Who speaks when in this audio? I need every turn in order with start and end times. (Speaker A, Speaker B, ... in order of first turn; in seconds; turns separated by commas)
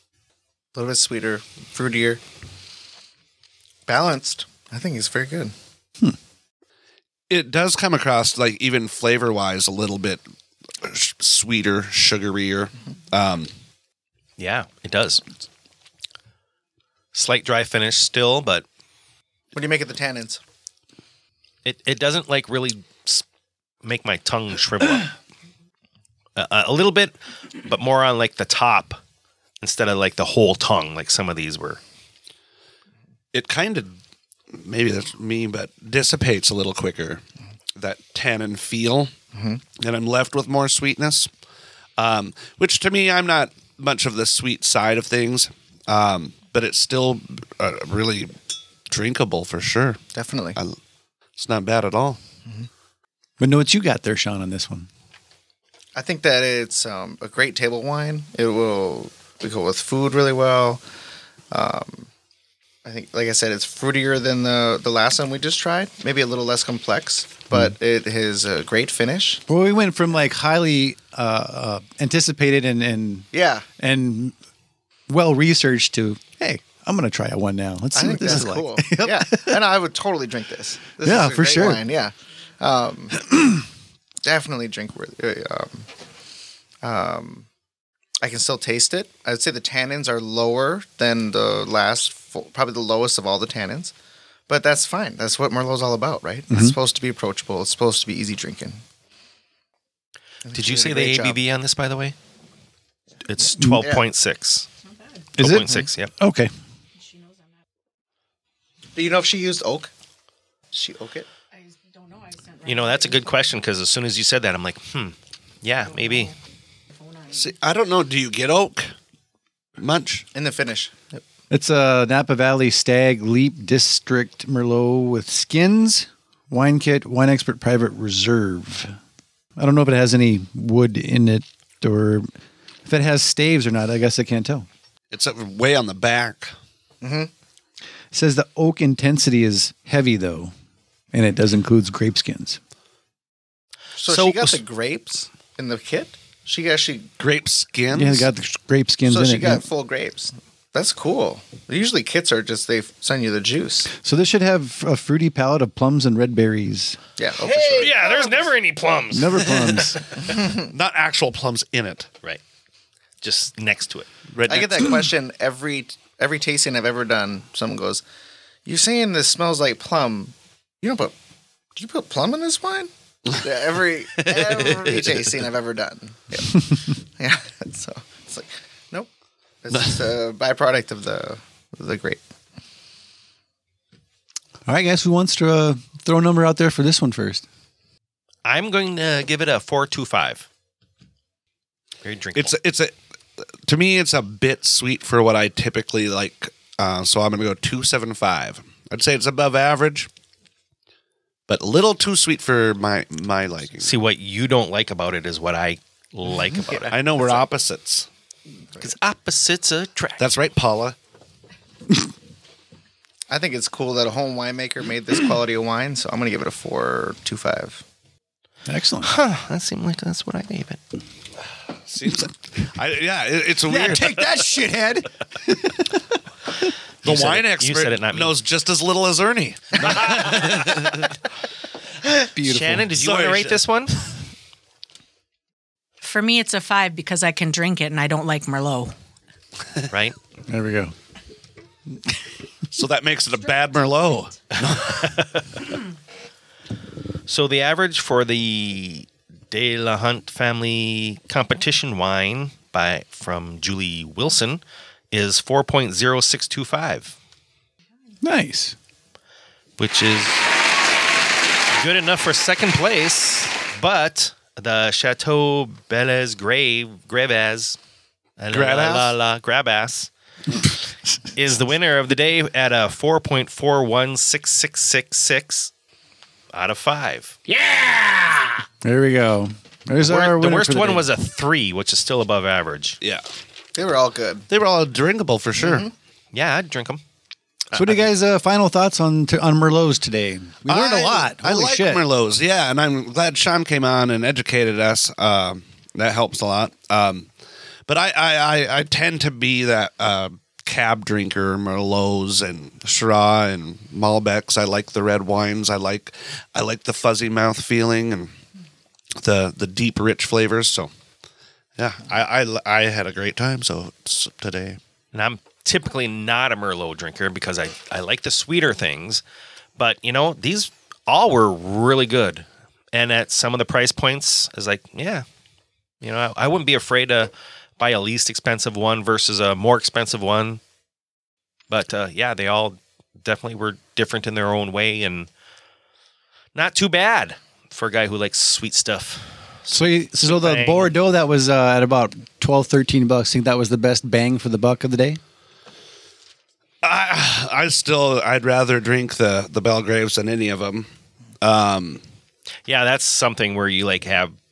Speaker A: 0.7-2.2, Speaker A: 3.9-5.5, Speaker B: 7.3-10.2, Speaker B: 10.8-13.5, Speaker C: 14.4-15.2, Speaker C: 17.1-18.6, Speaker A: 19.5-20.4, Speaker C: 21.6-23.2, Speaker C: 23.8-25.1, Speaker C: 26.4-29.0, Speaker C: 29.6-31.8, Speaker B: 33.3-34.0, Speaker B: 34.5-37.2, Speaker B: 37.8-39.1, Speaker A: 39.3-39.6, Speaker B: 39.8-41.3, Speaker B: 42.0-48.3, Speaker B: 48.9-50.0, Speaker A: 50.1-50.6, Speaker B: 51.4-52.2, Speaker D: 53.4-54.9, Speaker A: 56.0-60.8, Speaker A: 61.5-62.1, Speaker A: 62.9-69.4, Speaker D: 69.5-73.3, Speaker A: 73.3-73.7, Speaker D: 73.8-74.3, Speaker D: 75.1-79.6, Speaker A: 77.9-83.2, Speaker D: 81.0-81.8, Speaker A: 84.2-85.9, Speaker A: 86.8-87.5, Speaker A: 88.2-93.9, Speaker A: 94.5-98.8, Speaker D: 96.5-96.8, Speaker A: 100.5-101.4, Speaker C: 100.5-102.2, Speaker C: 103.2-104.7, Speaker A: 103.8-104.1, Speaker D: 105.4-106.5, Speaker C: 105.4-106.1, Speaker A: 109.0-109.9, Speaker A: 110.7-111.3, Speaker C: 112.7-116.3, Speaker B: 117.3-118.9, Speaker B: 119.8-120.3, Speaker A: 120.3-121.2, Speaker D: 121.5-128.9, Speaker D: 129.6-132.3, Speaker D: 132.9-134.7, Speaker B: 135.1-136.6, Speaker A: 137.0-137.3, Speaker D: 138.1-140.5, Speaker D: 141.1-142.6, Speaker A: 144.0-147.1, Speaker C: 144.1-144.6, Speaker B: 147.2-148.3, Speaker D: 147.9-149.7, Speaker A: 149.1-153.9, Speaker D: 153.9-157.0, Speaker A: 157.2-158.4, Speaker C: 157.5-159.5, Speaker D: 159.1-160.0, Speaker B: 159.8-162.1, Speaker A: 160.2-160.7, Speaker C: 163.2-164.1, Speaker B: 164.3-165.1, Speaker A: 164.5-168.0, Speaker A: 168.7-171.2, Speaker A: 171.8-179.1, Speaker B: 174.2-175.3, Speaker A: 179.6-182.2, Speaker B: 179.7-180.0, Speaker D: 184.7-187.4, Speaker C: 188.4-190.5, Speaker C: 192.0-192.5, Speaker B: 192.3-192.9, Speaker B: 193.7-200.1, Speaker B: 201.5-204.0, Speaker C: 203.8-206.9, Speaker A: 206.3-207.4, Speaker B: 206.9-208.1, Speaker C: 208.8-210.2, Speaker B: 210.2-211.0, Speaker A: 213.3-217.8, Speaker D: 218.7-219.1, Speaker C: 219.0-220.8, Speaker B: 221.9-224.2, Speaker D: 223.7-226.0, Speaker B: 227.0-231.2, Speaker C: 227.1-228.3, Speaker C: 229.8-230.9, Speaker D: 232.3-232.9, Speaker C: 232.4-234.0, Speaker B: 232.9-233.6, Speaker E: 236.0-238.9, Speaker C: 239.9-240.2, Speaker D: 240.5-240.9, Speaker B: 242.7-245.2, Speaker C: 244.9-245.6, Speaker C: 247.3-257.1, Speaker D: 258.2-258.8, Speaker C: 259.8-260.5, Speaker C: 261.7-267.8, Speaker C: 268.4-270.1, Speaker B: 268.5-269.1, Speaker C: 271.4-275.7, Speaker C: 276.5-277.4, Speaker B: 277.5-278.6, Speaker D: 278.8-281.1, Speaker C: 280.0-283.0, Speaker A: 283.8-284.5, Speaker B: 284.5-285.9, Speaker A: 285.6-285.9, Speaker C: 286.3-287.0, Speaker C: 287.7-288.0, Speaker D: 287.7-292.0, Speaker B: 290.7-297.3, Speaker B: 297.9-308.3, Speaker B: 309.2-310.9, Speaker B: 311.8-314.8, Speaker C: 315.1-319.2, Speaker C: 319.8-325.2, Speaker C: 326.0-330.6, Speaker C: 331.7-335.3, Speaker C: 336.6-340.9, Speaker D: 339.7-345.2, Speaker B: 346.8-350.9, Speaker B: 351.4-352.0, Speaker C: 352.7-354.4